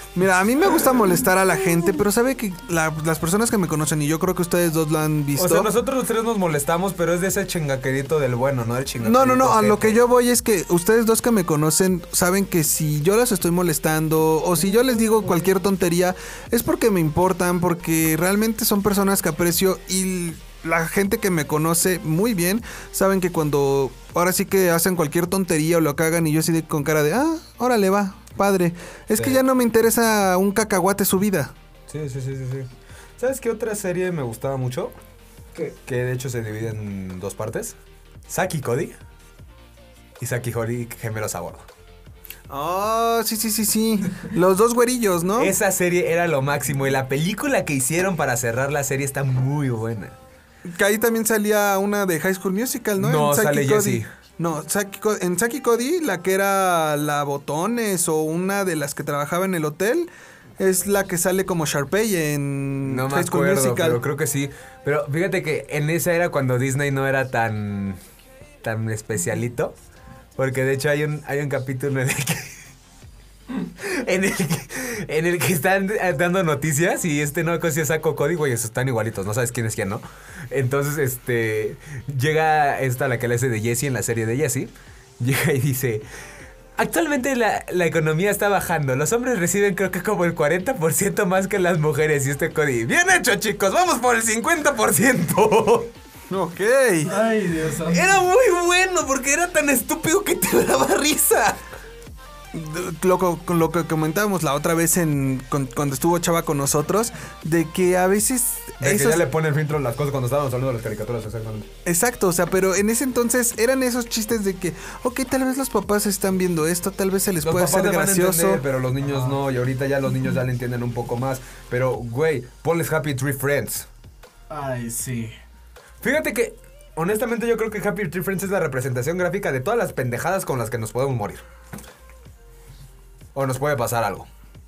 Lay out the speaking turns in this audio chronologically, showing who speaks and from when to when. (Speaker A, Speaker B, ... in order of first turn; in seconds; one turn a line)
Speaker A: 0.1-5.7
Speaker B: 5.3-10.0
Speaker A: 9.0-31.5
Speaker B: 29.1-29.4
Speaker B: 31.9-32.7
Speaker B: 33.2-34.9
Speaker B: 35.5-37.8
Speaker B: 38.3-39.0
Speaker B: 40.2-41.6
Speaker A: 42.5-45.5
Speaker B: 45.4-50.1
Speaker A: 50.6-64.0
Speaker B: 53.0-54.1
Speaker B: 62.8-68.0
Speaker B: 68.6-69.7
Speaker B: 70.3-72.5
Speaker B: 73.8-86.0
Speaker B: 86.8-95.9
Speaker A: 96.3-97.1
Speaker C: 97.0-98.2
Speaker B: 97.9-101.6
Speaker A: 102.5-109.2
Speaker B: 108.8-111.7
Speaker A: 111.8-118.6
Speaker B: 117.4-123.9
Speaker C: 119.0-119.4
Speaker C: 124.5-125.3
Speaker B: 126.0-131.4
Speaker B: 133.3-134.3